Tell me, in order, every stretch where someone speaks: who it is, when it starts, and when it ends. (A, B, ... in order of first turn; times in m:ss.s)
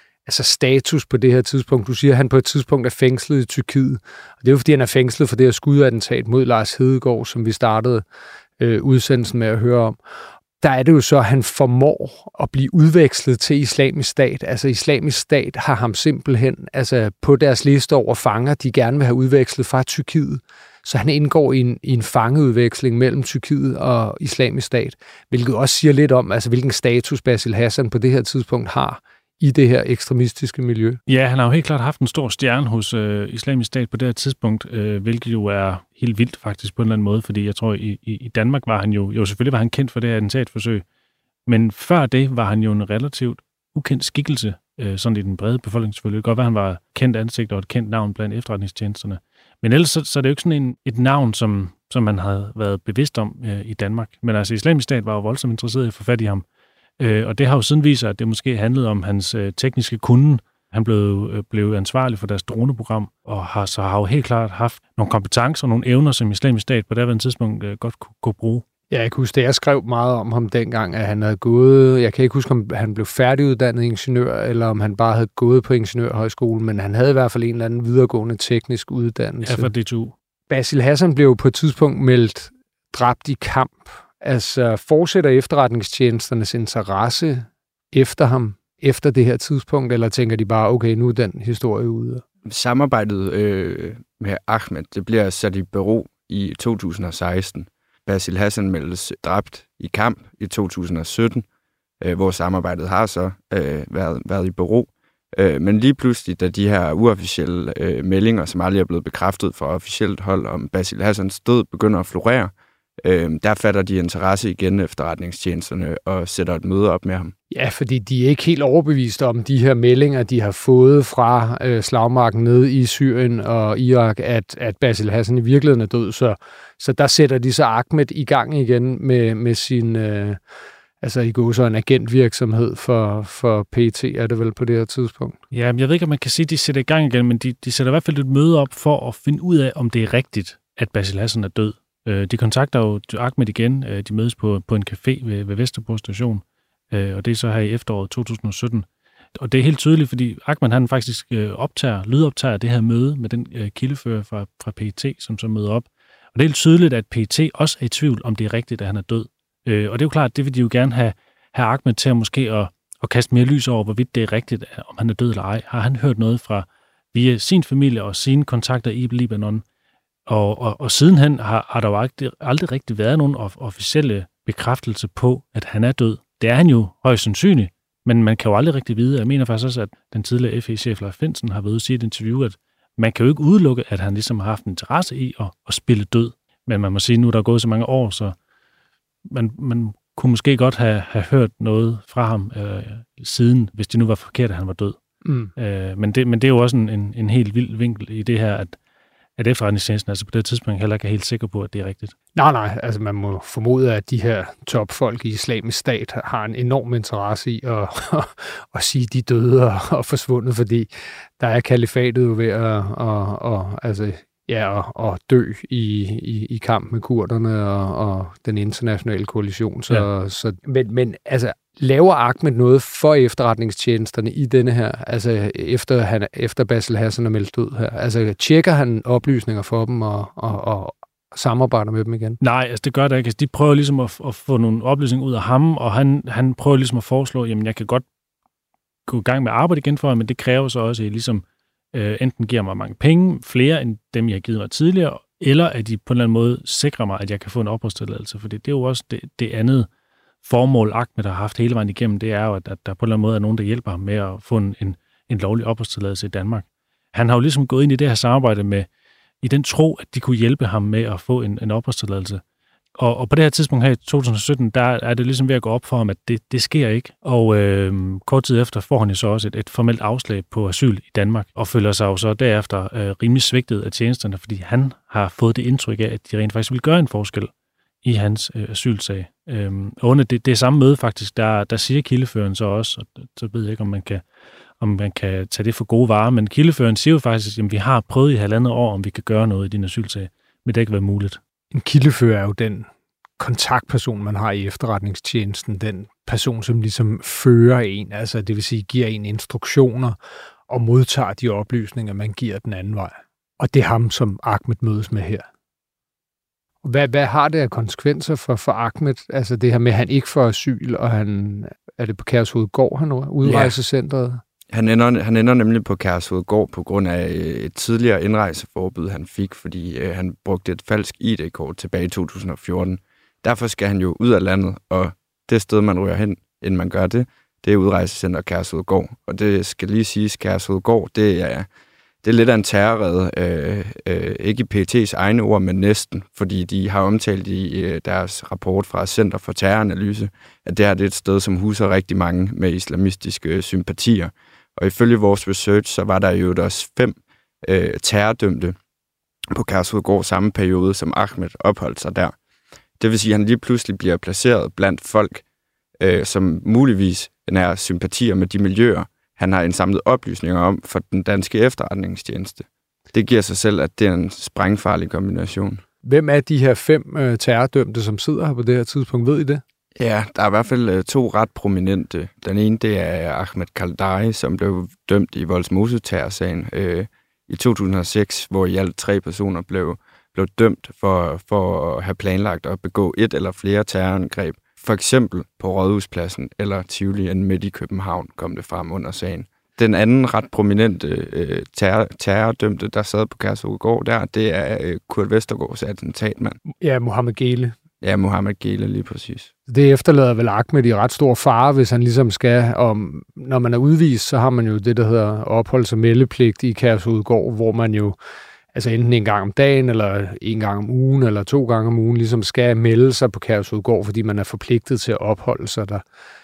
0:00.2-0:08.0 A
0:08.6-0:10.0 A
0:10.6-0:31.0 A
0:31.1-0:40.8 B
0:41.4-0:56.4 B
0:57.0-1:08.6 B
1:08.9-1:19.7 A
1:19.4-1:20.1 B
1:20.5-1:32.2 A
1:32.4-1:41.4 C
1:42.0-1:52.5 C
1:53.0-1:57.3 C
1:57.5-2:10.4 A
2:11.0-2:15.4 A
2:15.5-2:49.6 B
2:50.3-3:08.3 B
3:09.3-3:15.0 B
3:15.2-3:15.5 A
3:15.6-3:18.8 B
3:19.4-3:22.1 B
3:22.3-3:52.4 A
3:52.4-3:58.0 B
3:59.1-4:09.9 B
4:10.4-4:18.9 B
4:19.4-4:22.4 B
4:23.0-4:37.5 B
4:38.0-4:44.2 B
4:44.8-4:51.4 B
4:51.7-4:52.9 A
4:53.4-5:00.2 A
5:00.7-5:05.5 A
5:06.8-5:14.4 A
5:13.4-5:13.8 C
5:14.7-5:31.7 C
5:32.2-5:48.8 C
5:49.5-5:52.3 C
5:53.0-5:55.4 C
5:56.0-6:05.8 C
6:06.0-6:09.6 A
6:10.0-6:36.6 C
6:36.8-6:37.8 A
6:38.0-6:39.5 C
6:39.7-6:48.2 A
6:48.7-6:56.0 A